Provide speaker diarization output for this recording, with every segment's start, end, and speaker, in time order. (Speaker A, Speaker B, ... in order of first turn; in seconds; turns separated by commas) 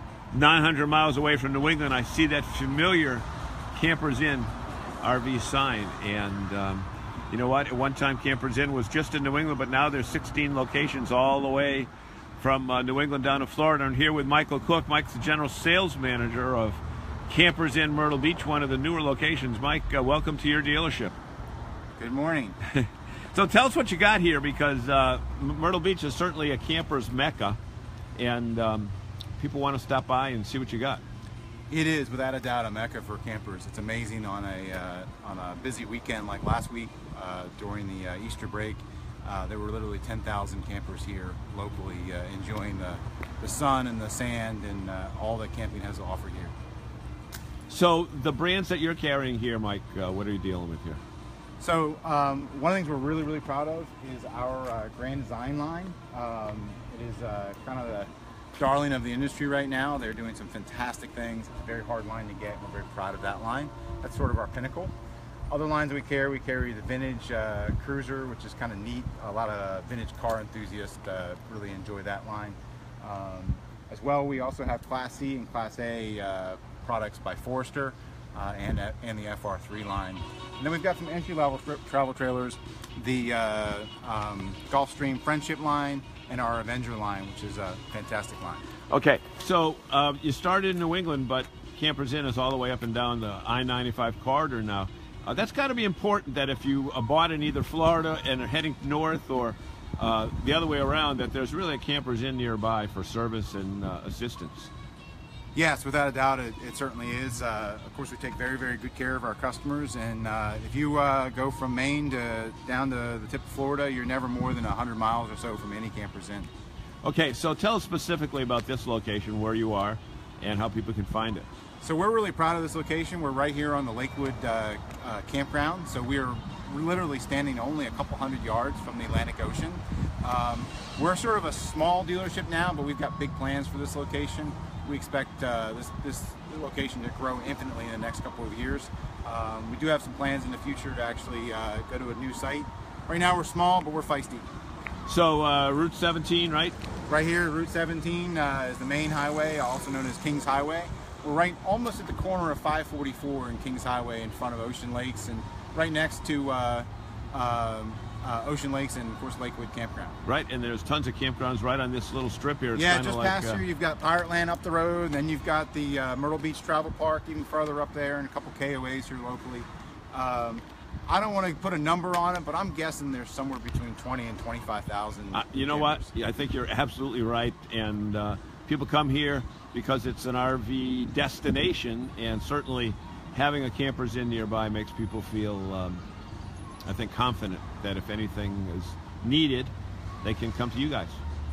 Speaker A: 0.3-21.1, Speaker B: 22.0-22.6, Speaker A: 22.7-27.6, Speaker A: 28.2-31.0, Speaker B: 31.7-46.5, Speaker A: 47.7-51.0, Speaker B: 51.6-64.9, Speaker B: 65.5-88.6, Speaker A: 88.9-104.7, Speaker B: 105.5-116.5, Speaker A: 117.0-121.5, Speaker B: 121.8-144.5, Speaker A: 145.1-146.8, Speaker B: 147.1-160.2, Speaker A: 160.2-163.6, Speaker B: 162.8-176.1, Speaker A: 175.3-186.0, Speaker A: 186.8-191.2